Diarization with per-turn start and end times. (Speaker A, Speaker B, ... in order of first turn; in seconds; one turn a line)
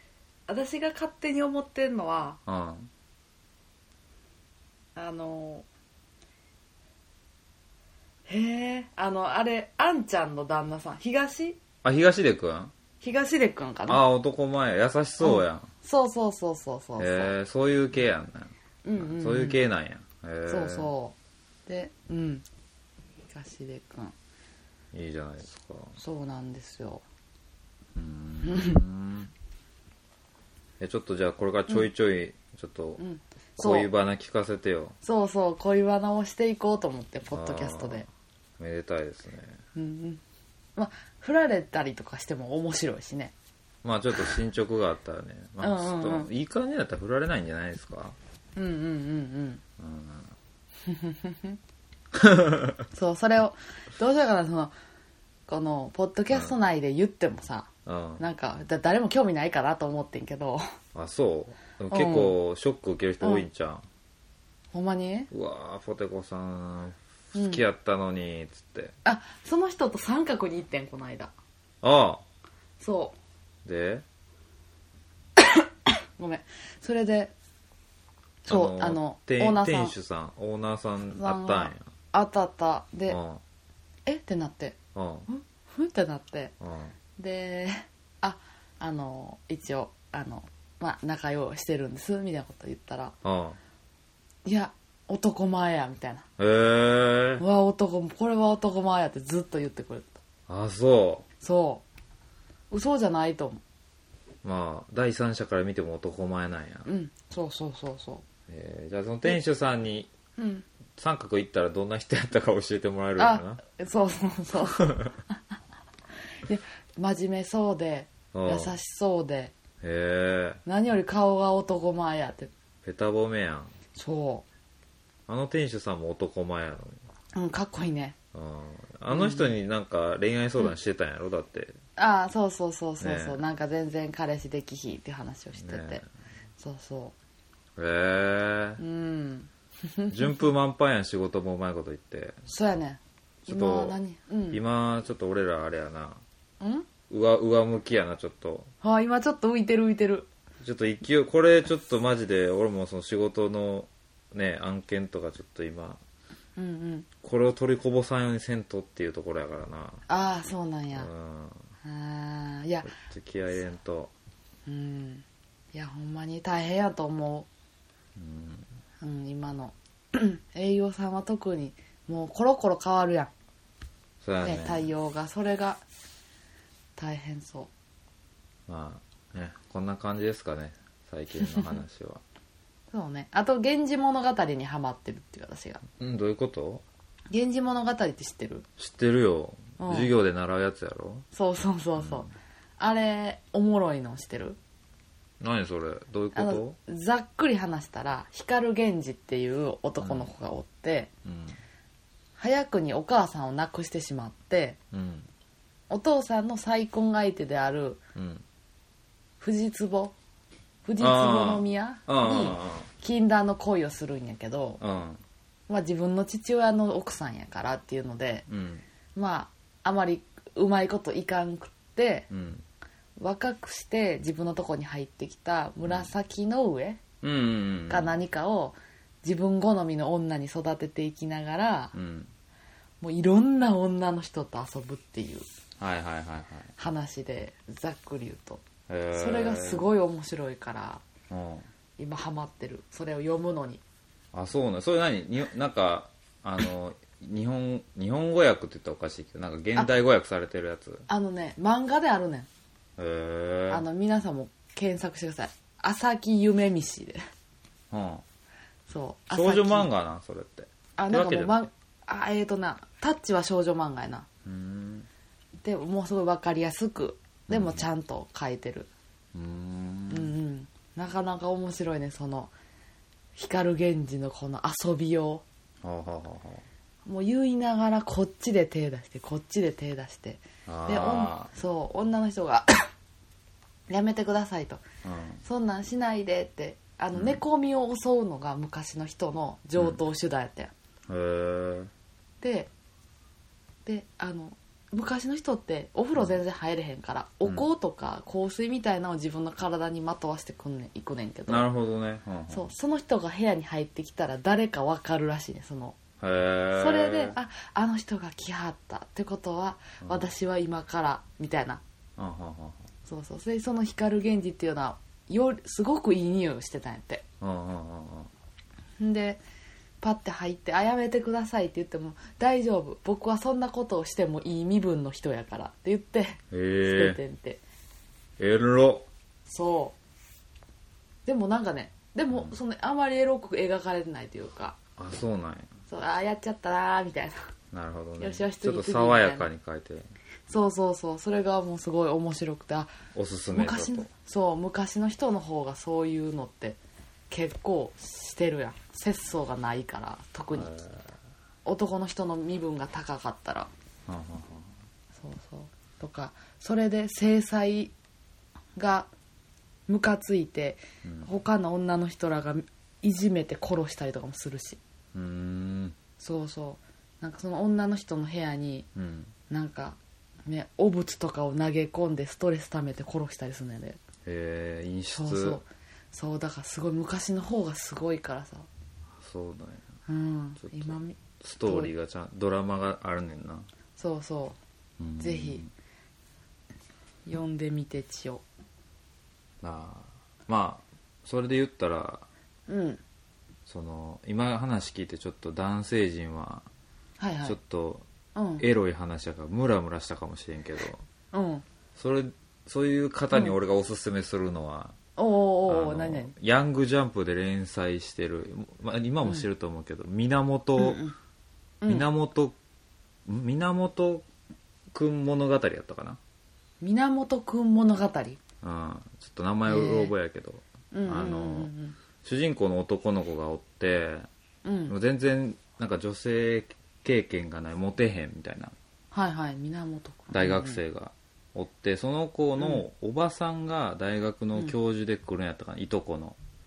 Speaker A: 0.5-2.4
Speaker B: 2.5-2.9
Speaker A: 5.0-5.7
Speaker A: 8.3-11.6
Speaker B: 11.8-12.7
Speaker A: 13.0-14.0
Speaker B: 13.9-15.7
Speaker A: 15.2-17.3
Speaker B: 17.0-20.9
Speaker A: 18.8-19.6
Speaker A: 20.5-21.1
Speaker A: 21.7-22.4
Speaker A: 23.3-24.1
Speaker B: 24.9-25.9
Speaker A: 26.0-27.0
Speaker B: 28.0-29.3
Speaker A: 28.4-28.8
Speaker B: 30.8-33.0
Speaker A: 33.0-33.9
Speaker B: 33.6-35.0
Speaker A: 35.0-38.1
Speaker B: 37.3-38.0
Speaker B: 38.6-39.6
Speaker A: 39.8-40.2
Speaker A: 40.8-43.3
Speaker B: 43.8-48.2
Speaker A: 45.6-46.3
Speaker A: 48.6-49.6
Speaker B: 49.8-50.3
Speaker A: 50.9-51.6
Speaker B: 52.1-52.8
Speaker A: 52.9-54.7
Speaker A: 55.5-60.6
Speaker B: 57.9-58.2
Speaker B: 61.0-63.9
Speaker A: 61.9-62.4
Speaker A: 63.2-63.5
Speaker A: 64.7-65.3
Speaker B: 65.3-69.0
Speaker A: 67.3-67.6
Speaker A: 69.0-71.3
Speaker B: 71.8-72.2
Speaker A: 72.8-73.2
Speaker B: 73.7-74.0
Speaker A: 75.4-77.3
Speaker B: 78.5-81.9
Speaker A: 78.5-79.9
Speaker A: 81.2-83.2
Speaker B: 83.1-83.4
Speaker A: 84.1-86.5
Speaker B: 85.0-85.3
Speaker B: 86.6-86.9
Speaker A: 87.2-93.2
Speaker B: 93.2-93.6
Speaker A: 94.5-96.2
Speaker B: 96.4-97.4
Speaker A: 97.4-100.2
Speaker B: 100.5-101.2
Speaker A: 101.4-101.8
Speaker A: 102.7-103.6
Speaker B: 104.4-106.9
Speaker A: 106.8-108.2
Speaker B: 108.5-110.1
Speaker A: 110.4-110.7
Speaker B: 111.0-113.6
Speaker A: 113.2-115.1
Speaker B: 114.8-115.1
Speaker A: 116.5-119.5
Speaker B: 118.3-118.8
Speaker B: 119.8-120.6
Speaker A: 120.7-122.5
Speaker B: 122.8-123.7
Speaker A: 124.0-124.5
Speaker B: 125.3-127.0
Speaker A: 127.3-128.2
Speaker B: 128.3-131.8
Speaker A: 129.1-129.5
Speaker A: 132.0-136.0
Speaker B: 133.0-133.4
Speaker B: 135.6-136.1
Speaker A: 136.6-137.1
Speaker B: 137.8-138.8
Speaker A: 138.8-140.4
Speaker B: 140.1-142.4
Speaker A: 142.5-144.6
Speaker B: 143.4-144.0
Speaker B: 144.5-146.2
Speaker A: 146.6-146.9
Speaker B: 147.1-148.7
Speaker A: 148.8-150.3
Speaker B: 150.6-156.0
Speaker A: 156.6-157.1
Speaker B: 157.2-160.0
Speaker A: 160.1-161.1
Speaker B: 160.9-161.6
Speaker A: 161.8-162.9
Speaker B: 162.8-164.1
Speaker A: 164.7-167.5
Speaker B: 168.2-168.7
Speaker A: 169.0-173.3
Speaker B: 174.2-174.8
Speaker A: 174.4-175.8
Speaker A: 177.0-177.7
Speaker B: 178.7-182.2
Speaker A: 181.5-181.8
Speaker A: 182.9-185.8
Speaker B: 186.0-186.8
Speaker A: 187.3-188.7
Speaker B: 188.8-191.3
Speaker A: 189.8-190.1
Speaker A: 191.3-194.6
Speaker B: 192.0-192.3
Speaker B: 195.4-196.8
Speaker A: 196.3-201.1
Speaker B: 200.0-200.3
Speaker B: 201.2-201.6
Speaker A: 202.4-204.8
Speaker B: 204.9-205.3
Speaker A: 205.9-208.0
Speaker B: 208.2-208.4
Speaker A: 209.4-210.1
Speaker A: 210.9-214.8
Speaker B: 211.0-212.9
Speaker B: 214.8-215.2
Speaker A: 215.7-218.5
Speaker B: 218.5-218.8
Speaker A: 219.2-222.3
Speaker B: 222.3-222.6
Speaker A: 223.2-227.0
Speaker B: 227.2-228.1
Speaker A: 227.9-231.9
Speaker B: 231.9-232.3
Speaker A: 233.0-235.5
Speaker B: 235.8-236.7
Speaker A: 236.8-241.0
Speaker B: 238.9-239.9
Speaker B: 241.3-241.7
Speaker A: 242.0-243.8
Speaker B: 244.3-251.1
Speaker A: 251.1-252.5
Speaker B: 253.0-253.8
Speaker A: 253.7-257.2
Speaker B: 257.9-258.2
Speaker A: 258.9-259.9
Speaker B: 259.3-261.6
Speaker A: 261.0-264.3
Speaker B: 264.4-265.1
Speaker A: 265.6-268.9
Speaker B: 267.5-267.8
Speaker B: 269.3-270.3
Speaker A: 270.1-272.5
Speaker A: 273.4-275.4
Speaker B: 275.8-276.6
Speaker A: 277.1-282.9
Speaker B: 280.7-281.5
Speaker A: 283.9-284.8
Speaker B: 285.0-285.4
Speaker A: 285.4-290.7
Speaker B: 287.1-287.4
Speaker B: 291.1-291.9
Speaker A: 292.4-292.7
Speaker A: 293.9-301.7
Speaker B: 301.5-302.7
Speaker A: 302.5-306.0
Speaker B: 306.2-307.4
Speaker A: 306.8-311.8
Speaker B: 310.0-310.3
Speaker B: 312.2-312.9
Speaker A: 313.1-317.2
Speaker B: 317.4-318.3
Speaker A: 319.0-319.4
Speaker A: 320.0-327.6
Speaker B: 326.5-327.2
Speaker B: 328.4-329.1
Speaker A: 329.5-330.0
Speaker A: 331.3-334.8
Speaker B: 335.0-335.7
Speaker A: 335.9-337.4
Speaker B: 337.7-340.1
Speaker A: 338.2-339.5
Speaker A: 340.5-342.9
Speaker B: 343.1-344.1
Speaker A: 343.5-346.8
Speaker A: 347.3-350.8
Speaker B: 350.6-351.0
Speaker A: 351.6-353.7
Speaker B: 354.1-354.7
Speaker A: 355.2-357.9
Speaker A: 358.8-359.1
Speaker A: 359.9-364.8
Speaker B: 365.1-366.0
Speaker A: 366.2-368.9
Speaker B: 369.0-369.3
Speaker A: 369.5-374.0
Speaker B: 374.3-375.6
Speaker A: 375.1-378.7
Speaker B: 379.2-379.8
Speaker A: 380.1-381.9
Speaker B: 380.6-383.7
Speaker A: 384.0-384.6
Speaker B: 385.0-385.7
Speaker A: 385.2-385.6
Speaker A: 387.3-388.4
Speaker B: 389.6-392.3
Speaker A: 392.7-393.0
Speaker B: 393.7-396.7
Speaker A: 397.2-397.6
Speaker B: 397.4-398.1
Speaker A: 398.4-398.7
Speaker B: 398.6-401.0
Speaker A: 401.3-401.6
Speaker B: 402.0-404.9
Speaker A: 405.2-406.3
Speaker B: 405.7-411.0
Speaker A: 410.8-411.1
Speaker B: 411.9-412.6
Speaker B: 413.3-414.3
Speaker B: 414.9-416.2
Speaker A: 416.8-418.4
Speaker B: 418.6-421.7
Speaker A: 419.7-420.1
Speaker A: 420.9-422.0
Speaker B: 422.2-424.3
Speaker A: 424.6-424.9
Speaker B: 424.9-428.7
Speaker A: 429.1-430.8
Speaker B: 430.3-436.4
Speaker A: 432.6-432.8